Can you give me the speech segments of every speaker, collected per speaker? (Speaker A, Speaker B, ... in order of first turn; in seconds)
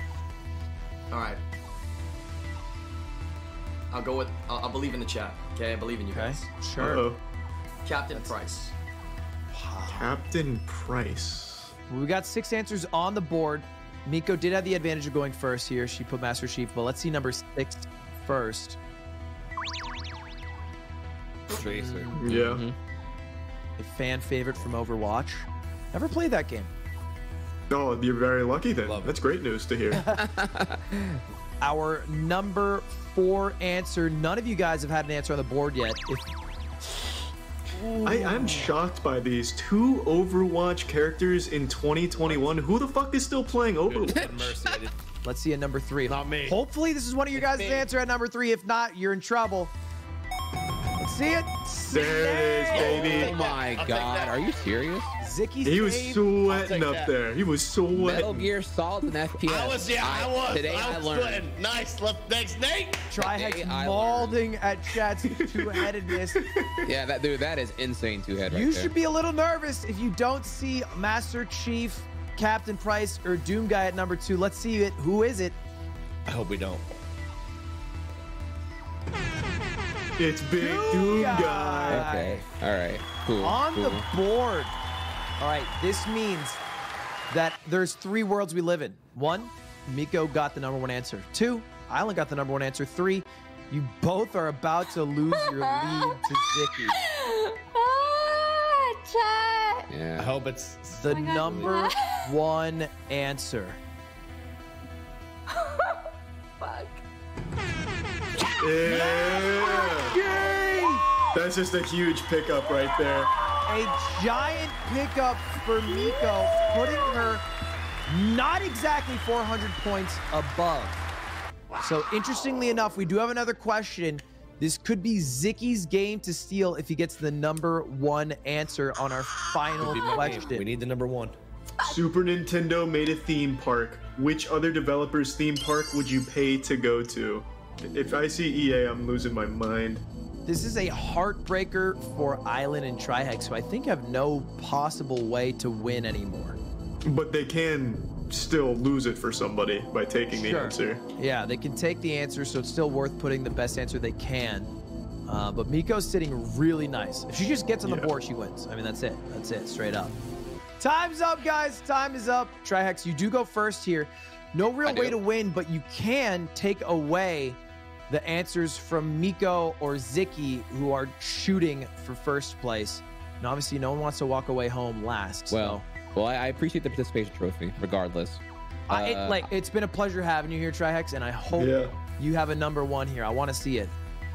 Speaker A: 1.1-1.4, 3.9-6.5, 7.8-8.7
Speaker B: 6.1-7.0, 9.5-10.1, 11.9-18.8, 21.5-22.2, 23.8-26.7, 29.9-30.2, 31.6-36.3, 37.8-38.7, 45.2-49.7, 51.0-53.2, 55.2-56.3, 63.1-66.4, 68.5-75.6, 80.6-82.5, 83.4-84.7, 85.4-86.6, 87.3-97.0, 100.9-103.8, 109.0-111.1, 113.7-117.4, 118.1-121.0, 121.8-130.7, 140.5-146.6, 150.3-154.7, 155.3-160.2, 160.8-175.8, 178.9-183.9
Speaker C: 6.8-7.2, 9.9-11.7, 22.1-22.6, 27.7-30.1, 38.0-44.3, 51.9-53.4, 55.6-58.5, 65.3-66.9, 80.2-82.1, 108.6-110.2, 111.3-113.3, 131.8-140.0, 147.0-151.0, 157.8-158.1, 181.5-181.9
Speaker D: 21.5-22.1, 28.8-29.2, 42.1-42.5, 43.9-44.9, 46.1-46.6, 47.3-47.9, 52.6-54.5, 56.4-57.1, 59.4-63.1, 76.3-76.9, 100.2-101.7, 129.7-131.4
Speaker E: 22.2-22.8, 30.1-31.2, 44.1-44.5, 53.1-55.1, 58.0-61.5, 63.2-64.4, 66.8-68.9, 81.9-84.1, 99.9-100.3, 164.8-165.2, 175.5-179.5
Speaker F: 95.3-99.9, 101.1-102.3, 105.5-106.0, 106.6-107.0, 108.4-111.4, 112.5-114.6, 115.9-117.4